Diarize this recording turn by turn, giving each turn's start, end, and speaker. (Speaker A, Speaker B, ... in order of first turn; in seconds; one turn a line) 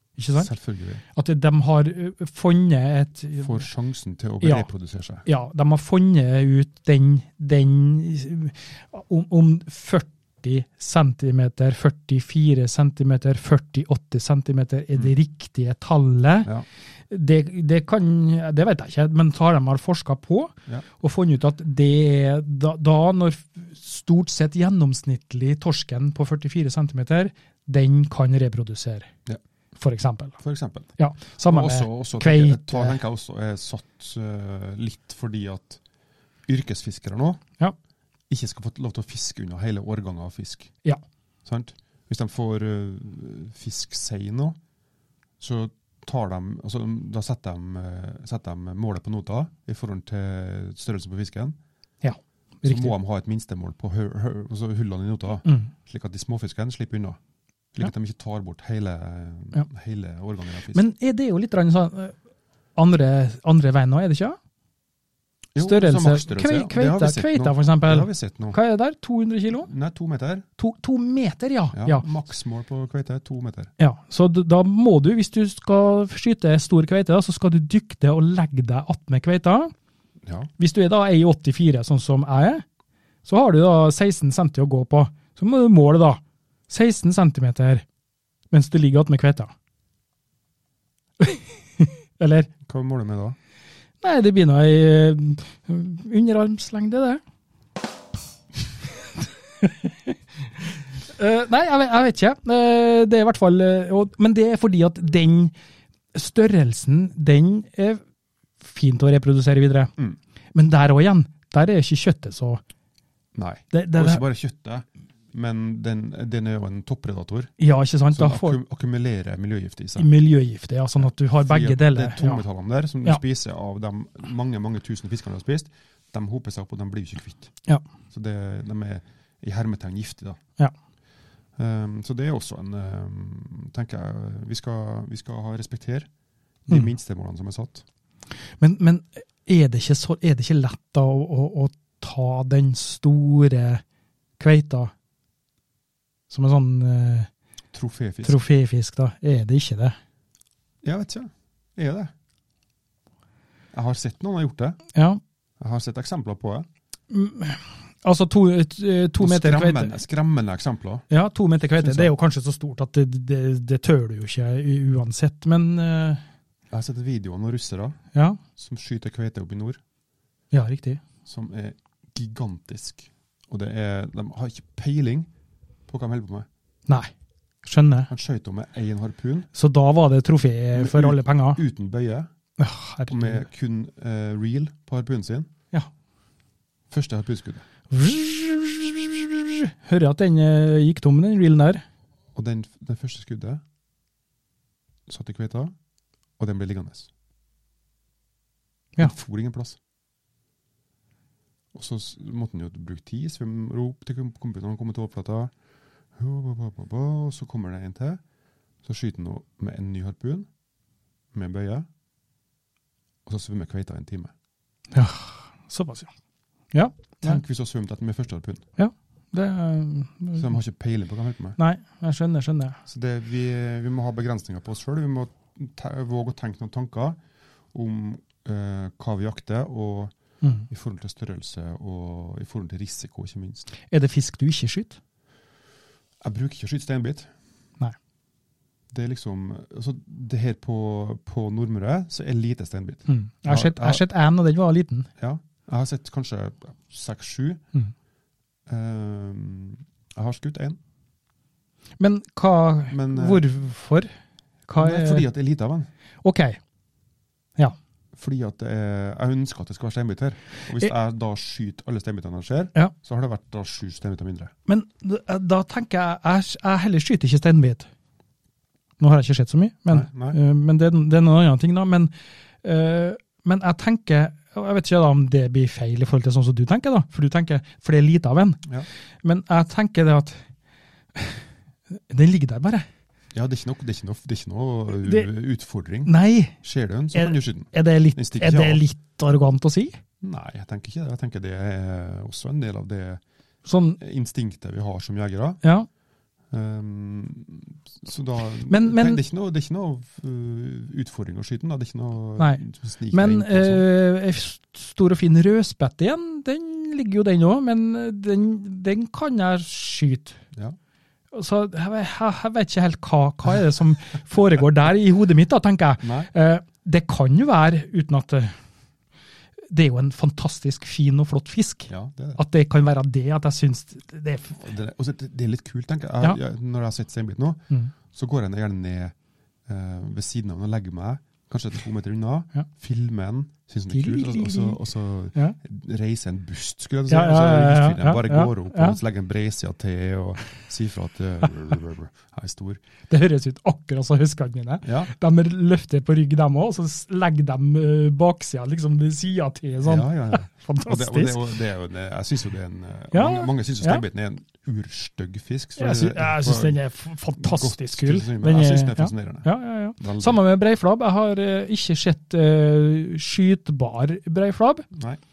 Speaker A: 0.2-0.5
Speaker B: 0.3-1.0
Speaker A: 1.1-3.6
Speaker B: 3.4-5.2
Speaker A: 4.4-4.7
Speaker A: 5.2-16.5
Speaker A: 17.1-29.1
Speaker A: 29.8-30.4
Speaker B: 30.4-35.8
Speaker A: 31.0-33.0
Speaker B: 36.5-37.4
Speaker B: 38.3-40.7
Speaker B: 41.5-44.6
Speaker B: 45.4-51.6
Speaker A: 52.0-52.9
Speaker B: 52.6-57.2
Speaker A: 55.5-55.7
Speaker B: 57.7-60.8
Speaker A: 60.7-62.2
Speaker A: 62.8-64.4
Speaker B: 65.5-68.6
Speaker A: 65.6-69.7
Speaker B: 69.6-70.5
Speaker A: 70.6-72.0
Speaker B: 71.7-73.7
Speaker A: 73.8-79.7
Speaker B: 80.2-80.5
Speaker A: 80.6-82.6
Speaker A: 83.2-87.8
Speaker A: 88.5-89.5
Speaker A: 91.2-92.5
Speaker B: 92.7-93.4
Speaker A: 94.0-97.2
Speaker A: 99.6-100.2
Speaker A: 101.1-105.5
Speaker A: 106.1-108.0
Speaker A: 108.6-109.9
Speaker A: 110.5-112.6
Speaker B: 113.3-117.5
Speaker A: 113.7-114.2
Speaker A: 117.6-118.6
Speaker B: 118.1-120.1
Speaker A: 120.0-122.5
Speaker B: 121.0-127.5
Speaker B: 128.1-130.4
Speaker B: 131.6-136.1
Speaker B: 136.7-137.8
Speaker A: 138.6-143.8
Speaker A: 144.4-144.9
Speaker A: 146.3-147.3
Speaker B: 147.7-148.4
Speaker A: 148.2-150.0
Speaker B: 150.8-152.1
Speaker B: 153.7-154.8
Speaker A: 154.9-155.2
Speaker B: 155.6-156.7
Speaker A: 157.1-160.0
Speaker B: 159.2-161.1
Speaker A: 161.1-166.2
Speaker B: 161.8-162.1
Speaker B: 166.7-168.0
Speaker A: 168.1-168.4
Speaker B: 168.6-169.8
Speaker A: 170.5-171.0
Speaker B: 171.3-175.3
Speaker B: 175.9-176.5
Speaker A: 177.6-178.1
Speaker B: 178.1-179.5
Speaker A: 179.5-181.6
Speaker B: 180.8-182.3
Speaker A: 182.6-183.4
Speaker B: 183.1-185.5
Speaker B: 186.9-187.7
Speaker A: 187.9-191.8
Speaker B: 192.3-193.6
Speaker B: 195.1-195.7
Speaker B: 196.4-197.1
Speaker B: 199.0-199.8
Speaker B: 201.7-205.5
Speaker B: 206.2-208.2
Speaker B: 208.8-210.5
Speaker B: 211.3-211.9
Speaker B: 213.3-214.3
Speaker A: 214.9-216.1
Speaker A: 216.7-217.4
Speaker B: 217.2-218.7
Speaker A: 218.8-220.5
Speaker B: 220.4-221.6
Speaker A: 221.6-222.8
Speaker B: 222.9-227.2
Speaker B: 227.7-230.1
Speaker A: 230.4-230.7
Speaker B: 230.7-233.7
Speaker A: 233.9-235.0
Speaker B: 236.2-237.3
Speaker B: 238.9-244.0
Speaker A: 243.1-245.1
Speaker B: 245.2-247.6
Speaker B: 248.7-250.8
Speaker A: 252.0-254.1
Speaker B: 252.9-253.4
Speaker A: 254.7-255.3
Speaker B: 254.8-255.9
Speaker A: 256.2-256.6
Speaker B: 258.1-264.5
Speaker A: 264.7-267.9
Speaker A: 269.0-272.1
Speaker B: 269.9-270.4
Speaker A: 272.6-278.6
Speaker A: 279.2-280.4
Speaker A: 281.1-281.4
Speaker A: 282.0-282.9
Speaker B: 283.3-288.8
Speaker A: 285.0-285.3
Speaker A: 286.1-286.6
Speaker A: 287.1-290.0
Speaker B: 290.2-293.2
Speaker A: 293.7-294.0
Speaker B: 294.0-295.6
Speaker B: 296.5-303.9
Speaker A: 298.7-299.2
Speaker A: 303.1-310.4
Speaker A: 311.3-318.6
Speaker B: 316.0-316.3
Speaker A: 319.7-324.6
Speaker B: 321.9-322.4
Speaker B: 324.6-329.1
Speaker B: 329.7-342.8
Speaker A: 333.9-334.8
Speaker A: 337.1-339.0
Speaker A: 343.1-351.4
Speaker B: 344.8-345.1
Speaker B: 349.8-356.8
Speaker A: 353.1-354.0
Speaker A: 355.8-364.9
Speaker B: 357.4-360.4
Speaker B: 364.9-365.2